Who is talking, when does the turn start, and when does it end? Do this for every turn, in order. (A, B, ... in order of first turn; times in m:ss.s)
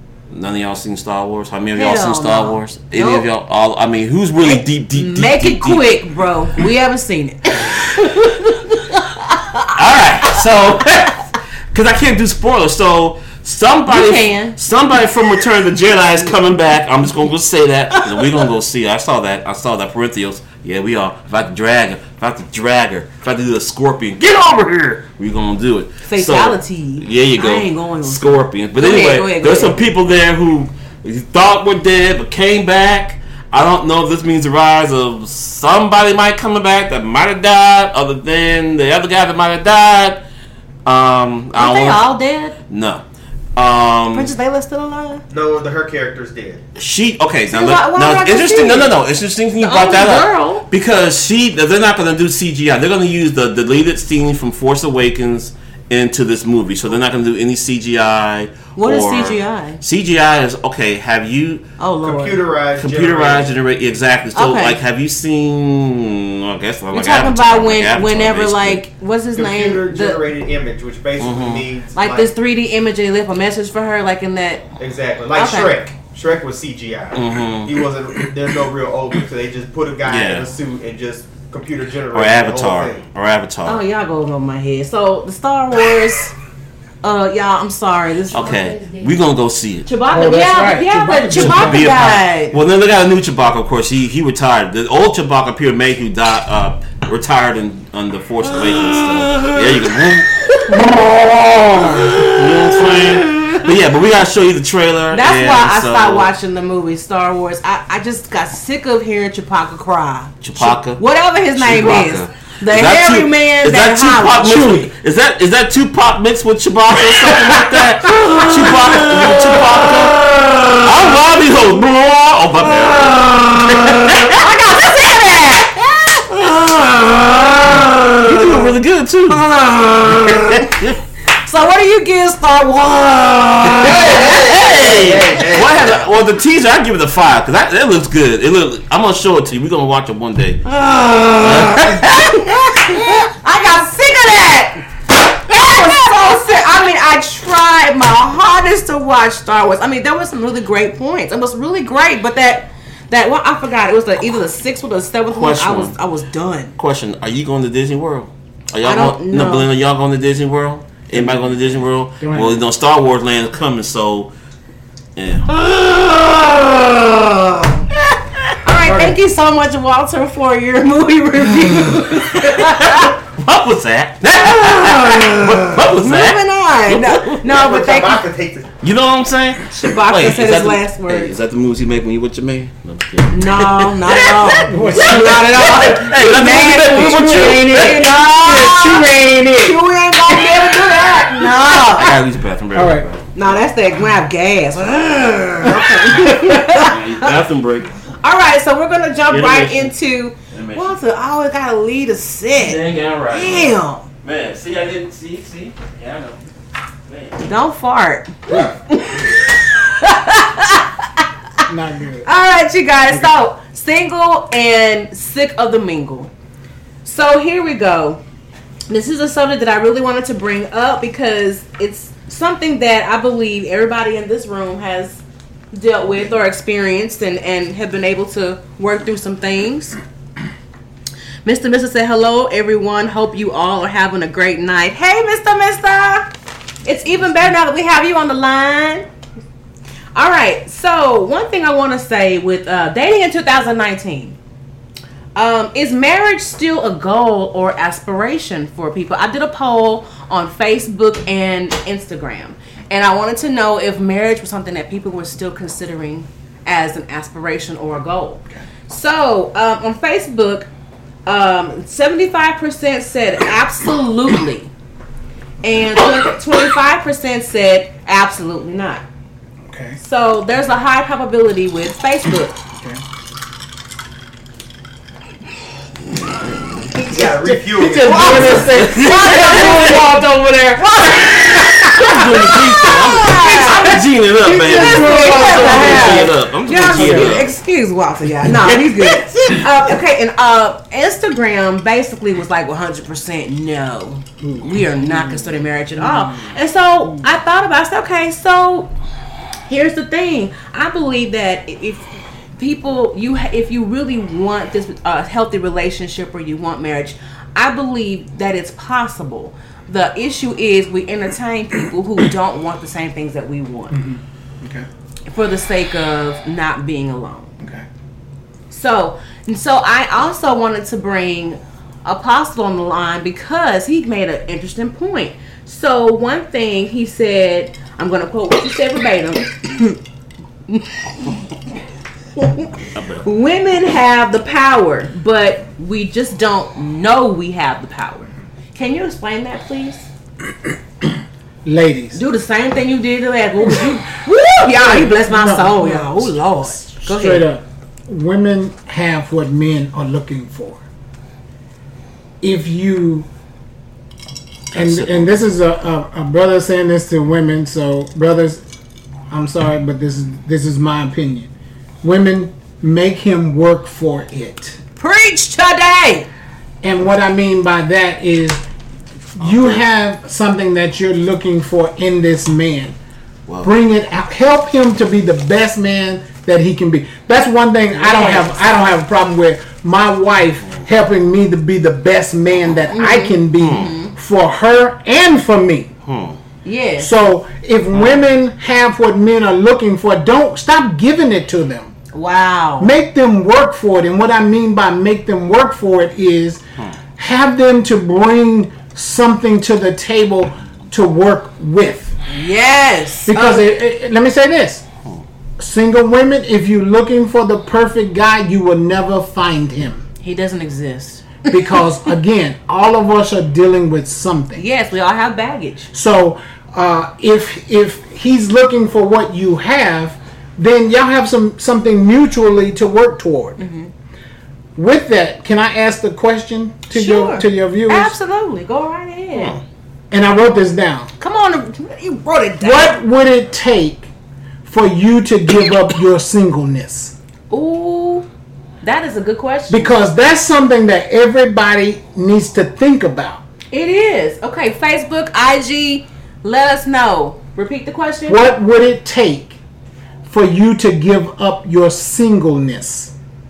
0:00.3-0:06.0 A
0:01.8-0:03.2 B
0:04.4-0:11.0 B
0:09.7-0:40.2 A
0:13.9-0:14.6 B
0:18.0-0:18.3 B
0:26.1-0:29.8 B
0:40.8-0:42.0 A
0:41.6-0:42.6 B
0:42.7-0:43.0 A
0:43.6-0:44.3 A
0:44.1-0:45.2 B
0:45.3-0:46.6 C
0:46.8-1:01.6 A
0:47.5-0:48.9 B
0:49.6-0:50.6 B
0:58.8-0:59.8 B
1:01.8-1:02.4 B
1:02.0-1:03.6 C
1:02.8-1:08.8 A
1:04.3-1:04.8 B
1:06.9-1:10.2 B
1:09.4-1:12.3 C
1:11.2-1:11.7 A
1:11.9-1:14.6 B
1:14.8-1:23.0 C
1:15.3-1:15.8 B
1:17.1-1:17.8 A
1:20.0-1:20.5 A
1:22.1-1:23.8 A
1:23.6-1:26.3 B
1:27.0-1:29.1 B
1:28.3-1:29.9 A
1:29.8-1:32.6 B
1:30.1-1:32.0 D
1:31.3-1:40.9 A
1:38.5-1:43.7 B
1:40.7-1:41.0 D
1:41.7-1:46.3 A
1:45.1-1:54.9 B
1:50.4-2:04.4 A
1:58.1-1:59.4 B
2:03.5-2:06.5 B
2:06.3-2:09.4 A
2:07.3-2:08.2 B
2:09.3-2:10.8 B
2:10.1-2:11.0 A
2:11.4-2:14.6 B
2:13.6-2:20.7 A
2:13.7-2:16.0 C
2:20.7-2:36.7 B
2:21.4-2:22.3 A
2:35.3-2:36.0 A
2:36.8-2:44.3 A
2:38.8-2:39.7 B
2:41.1-2:41.4 D
2:42.2-2:42.6 D
2:45.2-2:45.5 A
2:45.6-2:47.8 B
2:48.6-2:53.1 B
2:48.8-2:49.2 D
2:52.5-2:57.4 A
2:54.6-2:58.2 B
2:57.4-2:58.7 C
2:58.8-3:08.9 A
2:59.7-3:01.4 B
3:03.3-3:09.1 B
3:04.6-3:11.6 D
3:09.6-3:12.1 B
3:11.7-3:13.6 A
3:12.7-3:13.1 D
3:13.3-3:17.3 B
3:15.6-3:18.0 A
3:16.0-3:16.8 D
3:18.2-3:24.0 B
3:19.3-3:19.9 A
3:20.5-3:21.0 A
3:22.5-3:26.4 A
3:27.1-3:27.4 A
3:27.4-3:31.7 B
3:28.5-3:28.8 D
3:31.7-3:32.3 D
3:32.2-3:36.3 B
3:37.0-3:38.2 B
3:38.9-3:50.0 B
3:51.4-3:56.3 B
3:56.8-3:59.1 B
4:00.1-4:04.4 B
4:05.3-4:20.7 B
4:21.2-4:24.7 B
4:25.6-4:29.0 B
4:29.7-4:30.0 D
4:30.0-4:32.6 B
4:36.0-4:37.1 A
4:37.0-4:38.8 C
4:37.1-4:40.2 D
4:37.8-4:47.5 A
4:38.0-4:40.1 B
4:40.8-4:44.0 B
4:42.0-4:47.4 D
4:44.5-4:58.9 B
4:48.4-4:49.6 A
4:54.4-4:56.6 D
4:59.7-5:14.0 B
5:13.9-5:14.9 D
5:15.3-5:17.6 B
5:18.7-5:30.0 B
5:30.7-5:31.4 B
5:32.4-5:40.0 B
5:32.9-5:33.2 A
5:41.6-5:42.2 D
5:42.1-5:47.4 B
5:44.7-5:50.8 D
5:52.4-5:53.3 D
5:54.7-5:55.3 A
5:54.7-5:58.6 D
5:59.3-6:01.5 D
6:02.0-6:04.8 D
6:05.0-6:06.3 B
6:06.8-6:08.6 D
6:09.4-6:13.0 D
6:09.4-6:09.8 A
6:13.6-6:25.9 D
6:17.9-6:18.8 B
6:22.9-6:24.1 B
6:23.6-6:23.9 A
6:26.0-6:26.4 A
6:26.6-6:27.1 B
6:27.0-6:31.9 D
6:27.9-6:28.2 A
6:32.1-6:32.9 B
6:32.8-6:36.6 D
6:37.2-6:42.1 D
6:42.3-6:43.7 B
6:43.3-6:44.8 D
6:45.6-6:50.0 D
6:50.2-6:51.8 B
6:51.5-6:54.6 D
6:54.6-6:55.9 B
6:55.9-7:03.6 D
7:03.6-7:03.9 B
7:04.8-7:08.1 D
7:06.9-7:09.6 B
7:09.3-7:09.6 A
7:10.1-7:11.1 D
7:11.2-7:13.0 B
7:12.6-7:14.1 D
7:14.6-7:17.1 D
7:17.5-7:18.3 B
7:18.8-7:19.9 B
7:19.7-7:23.4 D
7:23.7-7:28.5 B
7:28.3-7:29.6 D
7:30.2-7:33.1 D